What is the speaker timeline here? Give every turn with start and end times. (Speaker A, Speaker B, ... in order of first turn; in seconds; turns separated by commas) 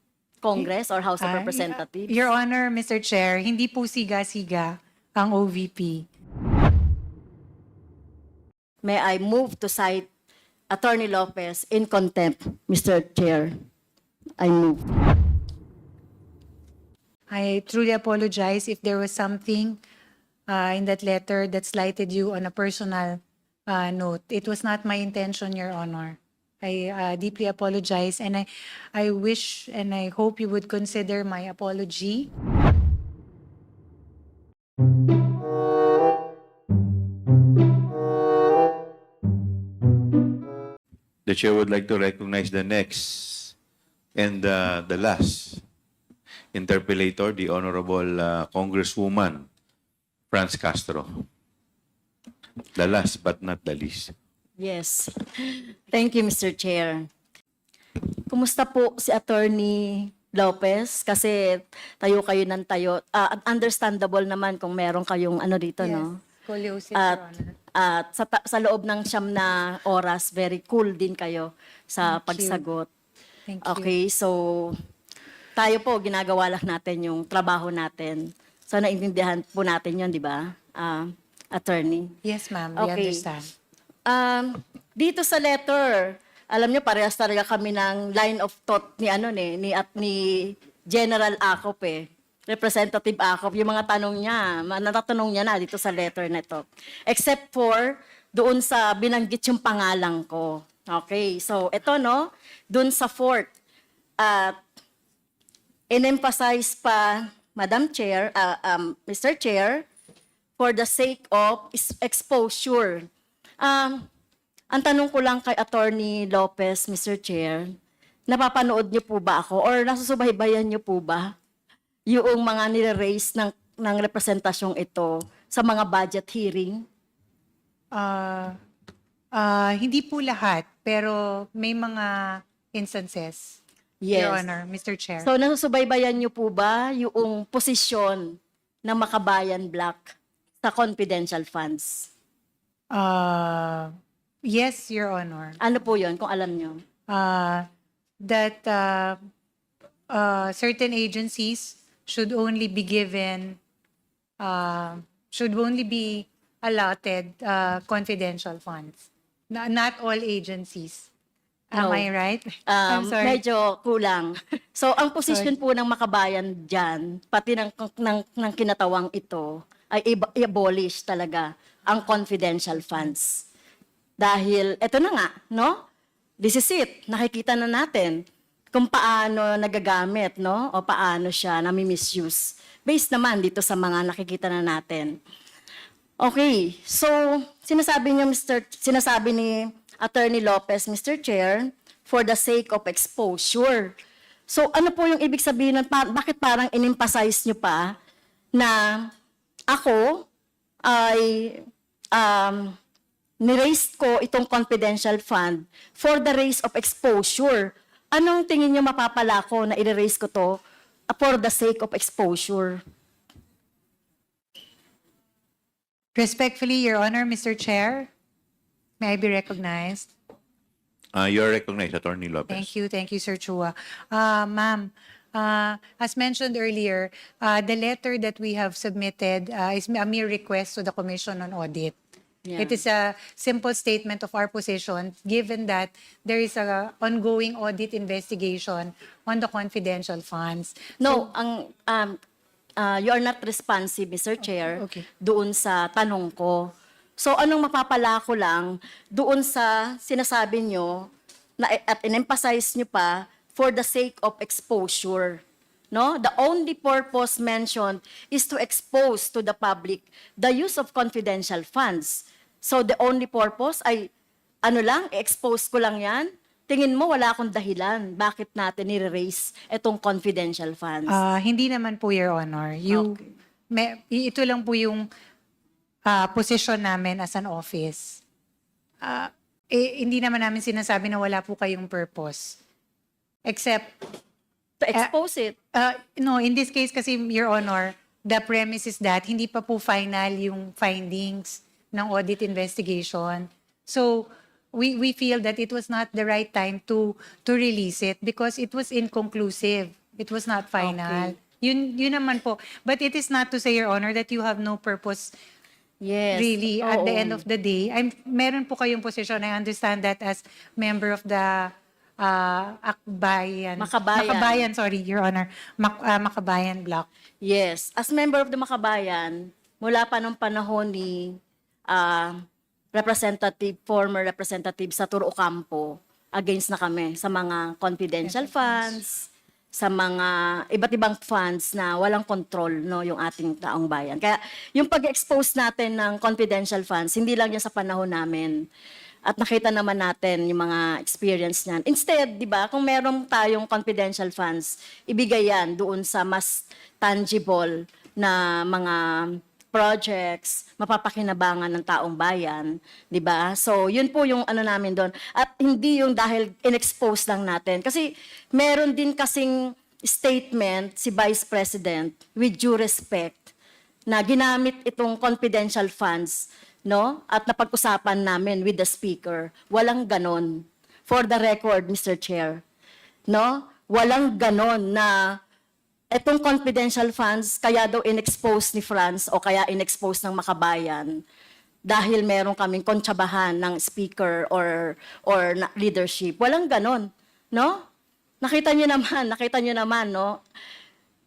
Speaker A: 0.4-2.1, Speaker B: 1.2-6.0, Speaker A: 8.8-10.1, Speaker A: 10.7-13.6, Speaker A: 14.4-15.0, Speaker B: 17.3-19.8, Speaker B: 20.5-32.3, Speaker C: 41.2-43.5, Speaker C: 44.1-45.6, Speaker C: 46.5-49.5, Speaker C: 50.3-51.2, Speaker C: 52.7-54.1, Speaker A: 54.6-57.1, Speaker A: 58.3-66.2, Speaker B: 65.8-67.5, Speaker A: 67.7-72.9, Speaker B: 72.0-72.6, Speaker B: 73.5-73.9, Speaker A: 73.6-74.8, Speaker A: 75.5-82.2, Speaker B: 82.2-83.5, Speaker A: 82.8-83.2, Speaker A: 84.0-103.5, Speaker A: 104.2-104.6, Speaker A: 105.9-109.8, Speaker A: 110.6-113.1, Speaker A: 113.6-114.1, Speaker A: 114.7-117.7, Speaker A: 118.3-121.3, Speaker A: 122.1-126.8, Speaker B: 127.9-128.6, Speaker B: 129.3-133.6, Speaker A: 134.0-134.4, Speaker B: 134.1-135.3, Speaker A: 135.2-142.1, Speaker B: 142.9-143.9, Speaker B: 144.4-145.6, Speaker A: 145.6-146.8, Speaker B: 147.1-147.7, Speaker B: 148.2-149.2, Speaker B: 150.1-153.6, Speaker B: 154.4-161.1, Speaker B: 161.7-163.4, Speaker A: 161.7-162.1, Speaker A: 162.7-173.4, Speaker A: 174.2-175.8, Speaker A: 176.4-178.2, Speaker A: 178.7-185.2, Speaker A: 186.2-193.9, Speaker A: 194.5-197.9, Speaker A: 198.5-199.1, Speaker A: 199.7-200.3, Speaker A: 200.8-202.8, Speaker A: 203.4-212.8, Speaker B: 216.1-218.1, Speaker B: 219.0-220.1, Speaker C: 221.1-222.7, Speaker B: 222.5-232.0, Speaker A: 232.4-232.8, Speaker B: 232.6-241.3, Speaker A: 241.0-242.2, Speaker A: 242.8-264.1, Speaker B: 244.7-245.1, Speaker A: 264.6-271.2, Speaker B: 271.1-275.1, Speaker A: 272.9-273.1, Speaker B: 276.1-278.2, Speaker B: 279.0-282.6, Speaker B: 283.4-284.0, Speaker A: 284.8-285.6, Speaker B: 285.7-305.3, Speaker A: 300.8-301.3, Speaker A: 306.0-307.4, Speaker B: 306.3-317.1, Speaker A: 313.8-314.6, Speaker A: 317.4-321.4, Speaker A: 321.9-322.4, Speaker A: 322.9-338.6, Speaker B: 328.2-328.9, Speaker A: 339.2-363.4, Speaker A: 364.1-372.6, Speaker A: 373.3-375.4, Speaker A: 376.1-381.2, Speaker A: 381.9-387.8, Speaker A: 388.4-390.4